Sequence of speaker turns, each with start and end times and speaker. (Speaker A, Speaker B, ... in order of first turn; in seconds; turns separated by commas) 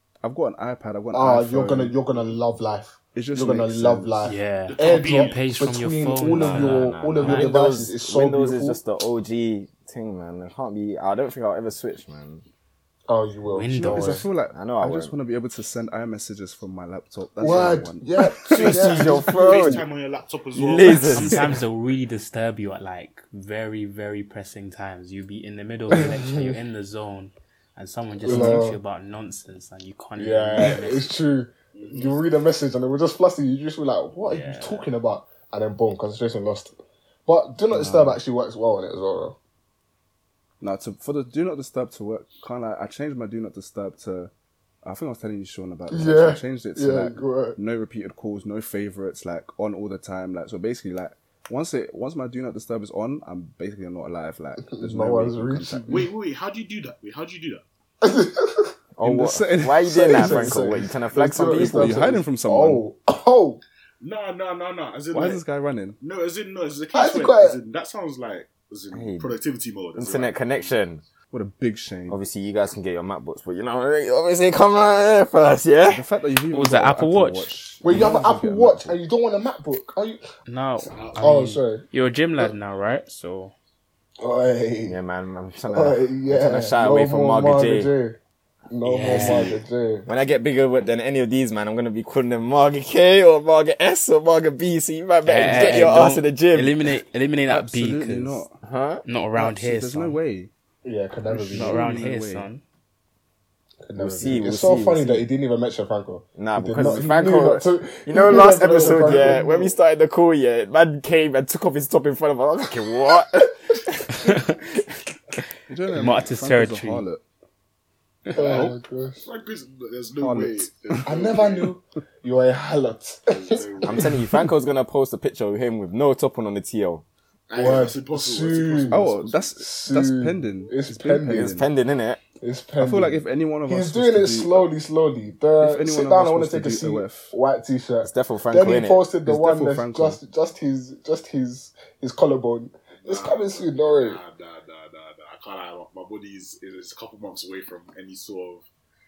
Speaker A: 0.2-1.9, Speaker B: 1.1-8.8, Speaker A: 3.1-4.2, Speaker C: 4.2-7.5, Speaker D: 4.7-5.4, Speaker E: 6.3-12.4, Speaker B: 13.1-14.3, Speaker C: 13.5-14.2, Speaker A: 13.7-18.1, Speaker E: 14.5-15.1, Speaker B: 17.4-19.9, Speaker D: 18.5-21.1, Speaker E: 18.6-19.9, Speaker E: 20.5-21.5, Speaker A: 21.1-21.6, Speaker C: 21.1-31.1, Speaker B: 26.0-26.6, Speaker B: 28.2-28.8, Speaker B: 30.2-39.4, Speaker D: 31.7-32.2, Speaker C: 34.2-34.9, Speaker A: 37.8-38.2, Speaker A: 40.6-44.3, Speaker A: 44.8-56.0, Speaker B: 45.9-47.6, Speaker B: 54.6-56.1, Speaker D: 55.9-57.6, Speaker B: 58.0-58.8, Speaker E: 59.0-62.0, Speaker A: 59.0-62.8, Speaker B: 59.9-63.6, Speaker D: 64.0-65.4, Speaker A: 65.1-66.0, Speaker D: 66.0-70.8, Speaker B: 66.9-67.6, Speaker E: 68.9-69.4, Speaker E: 69.9-71.0, Speaker A: 71.3-72.2, Speaker E: 72.1-76.0, Speaker A: 75.9-79.0, Speaker C: 76.5-77.5, Speaker B: 77.8-80.2, Speaker C: 80.5-83.5, Speaker D: 80.9-81.2, Speaker B: 81.1-81.9, Speaker B: 84.2-85.0, Speaker E: 84.8-87.9, Speaker B: 85.7-88.2, Speaker B: 88.7-90.1, Speaker C: 88.8-89.6, Speaker A: 89.1-89.6, Speaker E: 90.1-96.9, Speaker C: 95.2-98.4, Speaker A: 95.8-96.0, Speaker A: 97.5-98.6, Speaker E: 98.6-99.0, Speaker C: 99.0-100.2, Speaker A: 99.4-100.5, Speaker B: 100.8-102.0, Speaker A: 101.2-102.5, Speaker C: 101.5-102.6, Speaker B: 103.8-109.8, Speaker E: 104.0-105.3, Speaker E: 106.4-114.6, Speaker D: 108.6-109.6, Speaker A: 115.7-117.2, Speaker C: 115.9-117.1, Speaker D: 118.3-121.7, Speaker B: 118.3-119.3, Speaker A: 120.2-121.1, Speaker B: 121.1-124.4, Speaker D: 123.3-124.0, Speaker E: 123.8-127.0, Speaker D: 127.5-129.5, Speaker B: 127.5-131.6, Speaker A: 128.9-131.7, Speaker E: 131.2-132.2, Speaker B: 132.4-144.2, Speaker A: 132.8-134.7, Speaker A: 135.6-137.3, Speaker E: 138.0-139.1, Speaker A: 139.2-140.2, Speaker D: 142.9-148.7